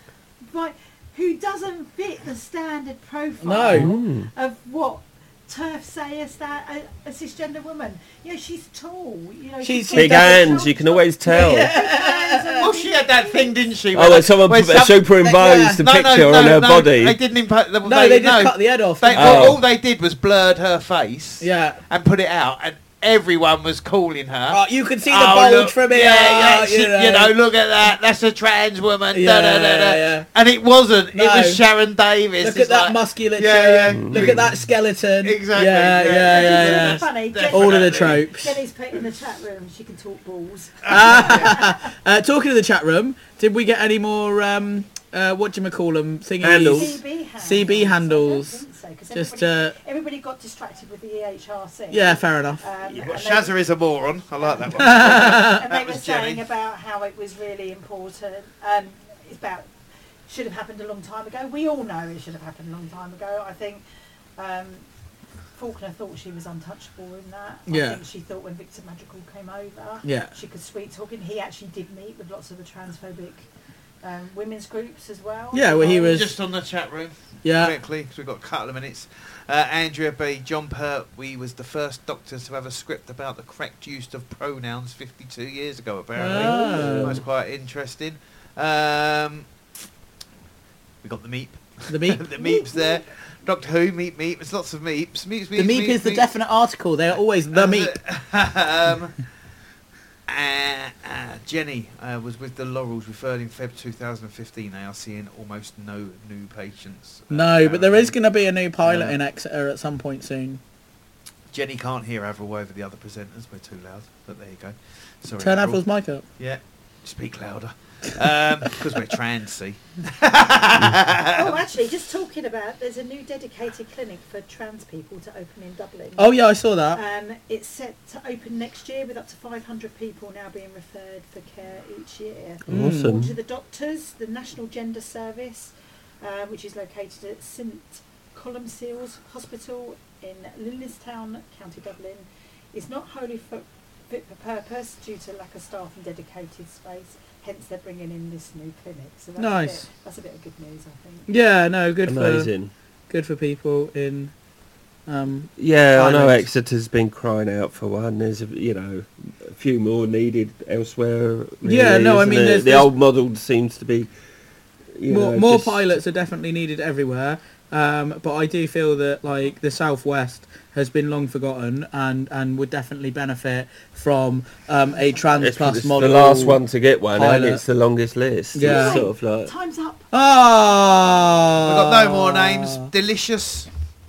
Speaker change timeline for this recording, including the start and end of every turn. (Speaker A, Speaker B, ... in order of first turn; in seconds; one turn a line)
Speaker A: 0.5-13.6
Speaker B: 3.4-3.9
Speaker C: 3.7-4.3
Speaker B: 9.6-10.7
Speaker C: 9.9-11.7
Speaker B: 11.3-12.7
Speaker D: 12.6-15.1
Speaker C: 13.9-17.2
Speaker B: 15.2-15.8
Speaker D: 15.8-34.5
Speaker B: 17.8-19.6
Speaker C: 19.1-19.6
Speaker B: 21.4-21.8
Speaker B: 24.5-27.3
Speaker B: 29.1-30.3
Speaker B: 31.1-31.6
Speaker B: 32.4-38.6
Speaker C: 33.9-34.5
Speaker D: 35.2-38.2
Speaker A: 36.3-41.9
Speaker D: 40.8-41.6
Speaker B: 40.9-48.6
Speaker C: 46.4-47.0
Speaker A: 46.7-53.6
Speaker B: 49.1-49.7
Speaker B: 51.9-52.6
Speaker D: 52.9-56.4
Speaker A: 54.5-59.7
Speaker B: 54.8-55.6
Speaker A: 60.3-63.8
Speaker A: 64.4-64.9
Speaker A: 65.5-73.5
Speaker B: 67.7-68.0
Speaker B: 70.0-70.3
Speaker A: 74.0-76.3
Speaker B: 75.5-76.3
Speaker D: 75.8-89.5
Speaker B: 77.4-77.8
Speaker B: 86.2-87.2
Speaker C: 86.4-87.2
Speaker D: 91.0-96.3
Speaker B: 91.9-92.2
Speaker A: 92.3-93.0
Speaker B: 95.6-98.0
Speaker D: 97.5-99.2
Speaker D: 100.3-108.2
Speaker B: 107.3-110.6
Speaker D: 108.9-109.1
Speaker D: 111.5-115.8
Speaker B: 115.4-116.2
Speaker D: 116.4-121.6
Speaker A: 121.3-126.4
Speaker B: 126.2-127.0
Speaker A: 126.9-151.3
Speaker C: 132.7-133.4
Speaker B: 132.7-133.2
Speaker B: 149.4-149.8
Speaker B: 151.3-152.5
Speaker C: 152.1-152.7
Speaker B: 153.1-154.3
Speaker B: 155.1-156.4
Speaker C: 155.6-164.1
Speaker B: 161.6-162.9
Speaker C: 164.9-165.8
Speaker B: 165.1-176.6
Speaker C: 175.4-179.5
Speaker B: 177.2-177.6
Speaker B: 178.5-179.1
Speaker A: 178.6-180.0
Speaker B: 180.1-182.9
Speaker D: 181.6-183.7